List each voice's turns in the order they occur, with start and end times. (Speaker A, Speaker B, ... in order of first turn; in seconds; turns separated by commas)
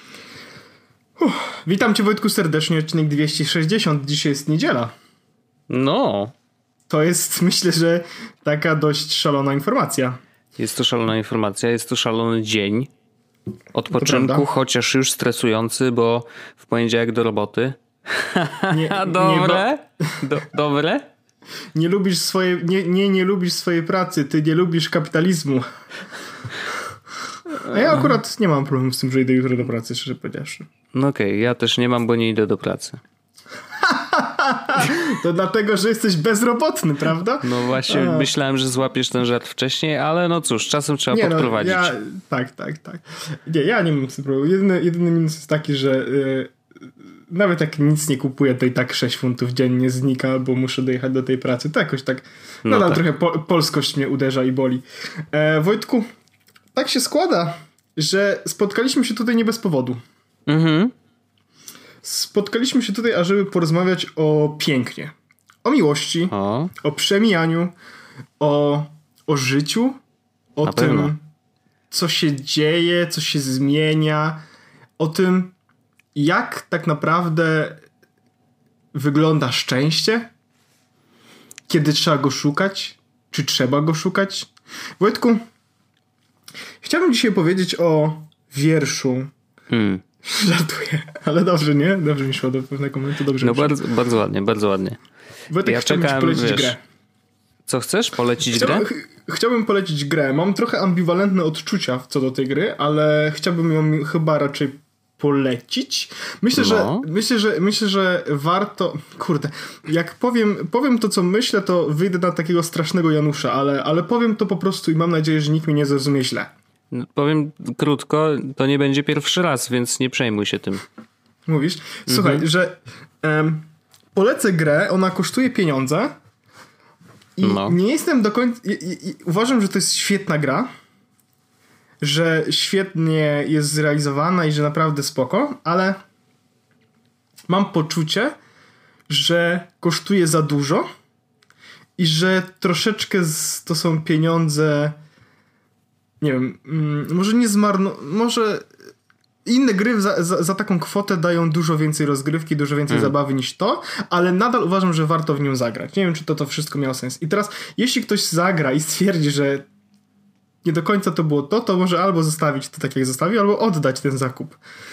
Speaker A: 1.2-4.9, Speaker B: 5.7-6.3, Speaker A: 6.9-10.2, Speaker B: 10.6-12.9, Speaker B: 13.7-21.1, Speaker A: 13.9-14.5, Speaker A: 18.7-19.7, Speaker A: 21.7-25.6, Speaker B: 27.6-28.1, Speaker A: 27.6-30.7, Speaker B: 30.9-33.0, Speaker A: 33.8-38.3, Speaker B: 37.4-41.9, Speaker A: 41.1-46.5, Speaker A: 47.3-56.1, Speaker B: 52.6-53.0, Speaker A: 56.7-60.0, Speaker B: 60.5-60.9, Speaker A: 62.0-67.7, Speaker B: 66.3-66.7, Speaker A: 68.4-70.0, Speaker A: 70.5-71.2, Speaker B: 70.6-71.1, Speaker A: 71.9-74.4, Speaker A: 75.0-75.5, Speaker A: 76.1-77.8, Speaker A: 78.9-80.3, Speaker A: 81.7-85.4, Speaker A: 86.8-89.3, Speaker B: 89.7-90.0, Speaker A: 90.2-93.8, Speaker B: 93.4-95.0, Speaker A: 95.5-96.8, Speaker B: 95.6-96.7, Speaker B: 97.7-98.9, Speaker A: 98.5-116.5, Speaker B: 106.5-107.0, Speaker B: 116.9-120.8, Speaker A: 121.5-126.2, Speaker B: 122.1-122.5, Speaker A: 127.4-130.7, Speaker B: 127.4-127.8, Speaker A: 132.0-136.0, Speaker A: 137.5-138.3, Speaker A: 139.1-140.9, Speaker A: 142.0-145.0, Speaker A: 146.2-148.7, Speaker A: 149.4-159.7, Speaker A: 160.6-164.6